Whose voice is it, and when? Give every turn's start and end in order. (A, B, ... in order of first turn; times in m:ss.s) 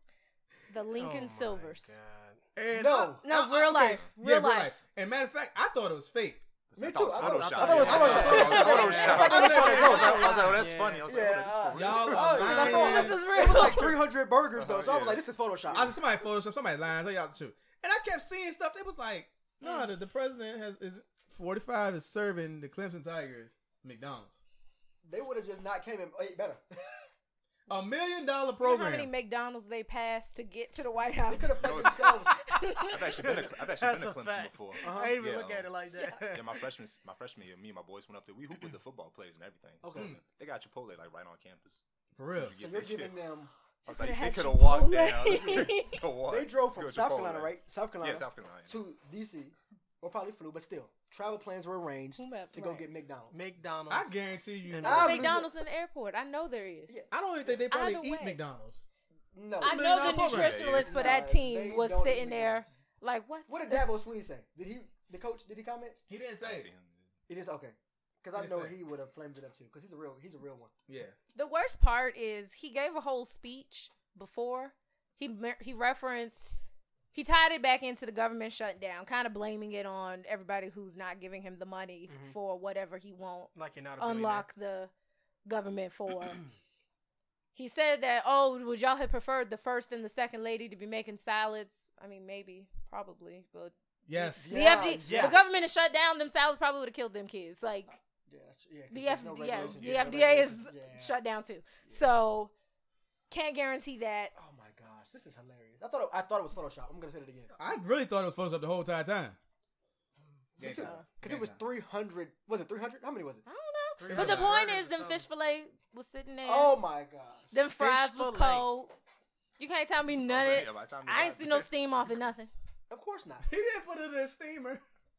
0:00.7-0:01.9 A
0:01.0-0:02.4 B
0:02.6-0:06.4 C
0:02.7-0:03.2 D
0:03.2-0:04.7 A
0:06.7-0:13.0 E
0:06.8-0:16.0 D
0:07.1-0:11.0 B
0:07.6-0:10.3 C
0:08.0-0:09.2 A
0:11.7-0:13.8 C
0:12.4-0:14.0 A
0:14.5-0:15.3 E
0:15.7-0:24.4 C
0:19.6-0:19.9 A
0:25.0-0:26.8 D
0:27.7-0:29.1 C
0:28.6-0:33.3 A
0:31.3-0:32.6 D
0:31.6-0:35.7 E
0:33.2-0:36.6 B
0:34.8-0:35.2 D
0:36.2-0:43.2 E
0:39.8-0:40.2 D
0:42.2-0:42.6 C
0:42.4-0:43.5 D
0:43.8-0:48.8 E
0:43.9-0:46.0 A
0:46.2-0:53.4 D
0:52.2-0:52.9 A
0:53.3-0:54.2 B
0:53.9-0:55.4 C
0:54.7-0:55.2 B
0:54.8-0:55.5 D
0:54.8-0:57.1 A
0:57.1-0:58.8 C
0:57.7-0:58.4 A
0:59.3-1:00.0 D
0:59.6-1:00.6 C
0:59.6-1:03.9 A
1:00.0-1:01.2 E
1:00.6-1:02.7 D
1:03.5-1:06.0 D
1:06.1-1:06.7 C
1:06.4-1:07.1 E
1:07.3-1:10.7 D
1:08.3-1:08.8 C
1:10.9-1:11.2 C
1:11.3-1:16.6 A
1:17.1-1:24.9 A
1:22.1-1:22.4 B
1:23.5-1:24.5 B
1:25.4-1:26.4 A
1:27.5-1:38.0 A
1:34.1-1:34.8 C
1:34.4-1:35.4 D
1:35.0-1:35.3 B
1:38.3-1:41.2 D
1:38.9-1:42.5 A
1:39.5-1:40.1 E
1:43.3-1:44.3 A
1:44.3-1:47.5 D
1:47.6-1:49.4 C
1:50.6-1:53.4 D
1:50.6-1:51.6 C
1:50.7-1:51.0 A
1:53.4-1:56.8 A
1:54.0-1:55.3 B
1:54.1-1:54.6 C
1:56.4-1:57.5 D
1:57.5-1:58.9 A
1:57.8-1:58.7 B
1:59.6-2:02.5 A
2:00.2-2:01.7 E
2:02.9-2:03.5 D
2:03.4-2:04.8 C